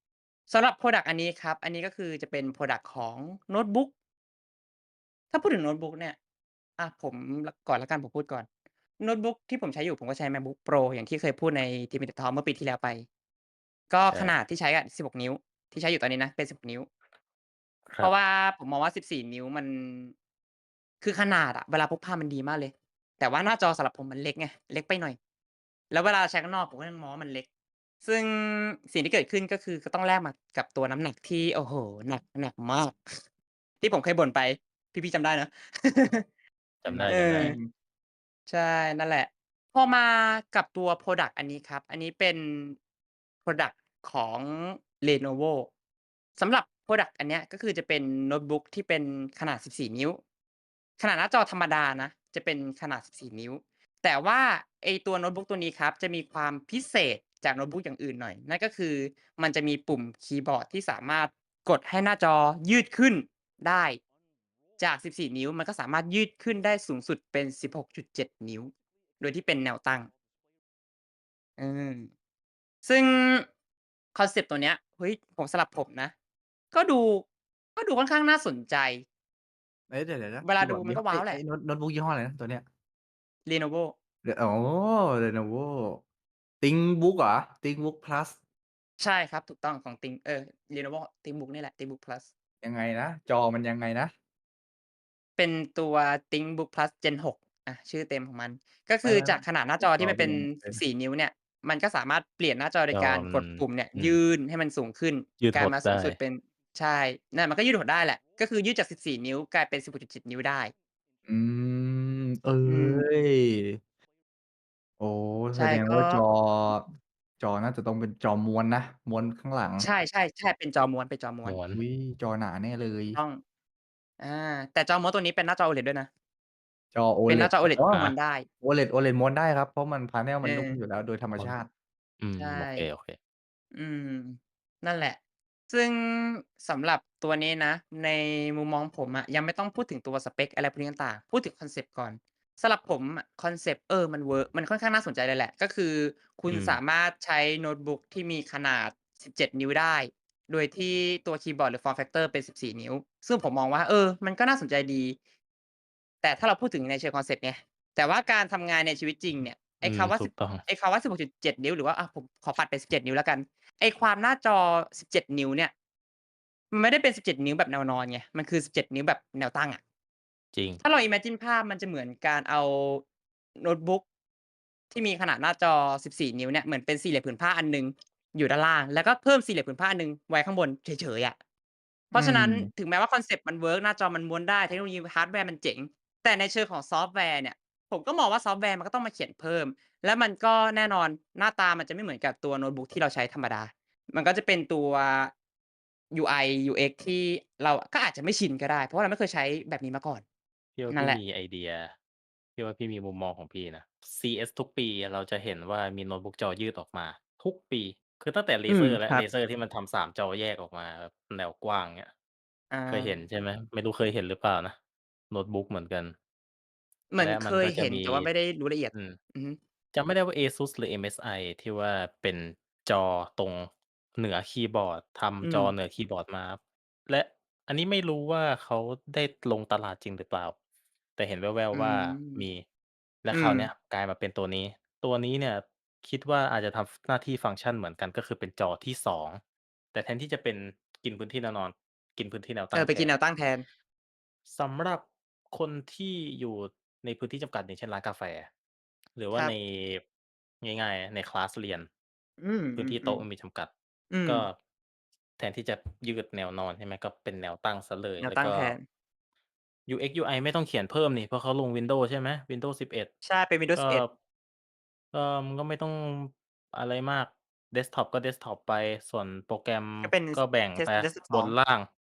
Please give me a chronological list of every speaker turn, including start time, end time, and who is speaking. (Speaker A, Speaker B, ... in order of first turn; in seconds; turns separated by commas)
Speaker A: 0.5-3.9, Speaker A: 5.3-6.2, Speaker A: 6.8-8.5, Speaker A: 9.0-13.0, Speaker A: 13.9-16.9, Speaker A: 18.0-20.1, Speaker A: 21.0-25.2, Speaker A: 25.9-27.4, Speaker A: 28.0-33.2, Speaker A: 33.8-36.2, Speaker B: 36.8-37.5, Speaker C: 36.9-37.6, Speaker A: 37.1-37.6, Speaker A: 38.5-42.8, Speaker A: 43.5-45.7, Speaker A: 46.4-50.2, Speaker A: 51.0-64.0, Speaker A: 64.8-70.1, Speaker A: 71.6-72.1, Speaker A: 72.8-73.5, Speaker A: 74.1-76.1, Speaker A: 76.7-77.2, Speaker A: 77.8-79.0, Speaker C: 79.9-82.7, Speaker A: 80.4-81.4, Speaker A: 83.5-83.9, Speaker C: 84.2-86.0, Speaker C: 86.6-88.4, Speaker A: 89.0-92.3, Speaker C: 92.6-94.1, Speaker A: 95.4-110.7, Speaker C: 99.0-100.8, Speaker B: 102.9-104.2, Speaker B: 105.4-106.2, Speaker C: 111.2-113.8, Speaker A: 112.6-113.0, Speaker C: 115.0-116.9, Speaker A: 115.5-116.2, Speaker C: 117.4-119.9, Speaker A: 119.8-121.6, Speaker B: 121.4-121.8, Speaker C: 121.7-123.2, Speaker A: 123.1-123.4, Speaker A: 124.2-126.1, Speaker C: 126.9-128.1, Speaker A: 127.3-128.5, Speaker C: 128.6-131.7, Speaker A: 130.4-130.8, Speaker B: 132.2-133.2, Speaker A: 132.4-132.9, Speaker A: 133.7-135.2, Speaker A: 135.7-155.2, Speaker B: 146.5-146.8, Speaker A: 156.2-165.7, Speaker B: 159.8-160.6, Speaker A: 166.7-169.8, Speaker B: 170.5-170.8, Speaker A: 170.8-173.0, Speaker A: 173.6-174.0, Speaker A: 174.9-181.4, Speaker A: 182.1-195.3, Speaker C: 182.1-182.7, Speaker A: 196.1-200.2, Speaker B: 200.8-201.9, Speaker A: 200.9-201.2, Speaker B: 202.6-212.1, Speaker A: 208.7-209.2, Speaker A: 212.7-213.2, Speaker B: 212.9-214.8, Speaker B: 215.3-216.1, Speaker A: 217.1-219.6, Speaker B: 217.2-218.3, Speaker B: 218.9-219.2, Speaker B: 219.9-230.5, Speaker A: 225.4-225.7, Speaker B: 231.2-232.6, Speaker A: 231.7-232.4, Speaker B: 233.2-239.4, Speaker A: 233.3-233.7, Speaker B: 239.9-243.1, Speaker A: 242.7-243.6, Speaker B: 244.5-248.5, Speaker B: 249.2-250.0, Speaker B: 250.6-251.9, Speaker A: 252.4-253.2, Speaker B: 252.8-253.7, Speaker A: 254.1-254.4, Speaker B: 254.2-254.6, Speaker B: 255.4-258.8, Speaker A: 258.2-258.8, Speaker B: 259.9-263.1, Speaker A: 263.2-264.0, Speaker B: 263.8-264.1, Speaker B: 265.1-271.9, Speaker A: 270.0-271.5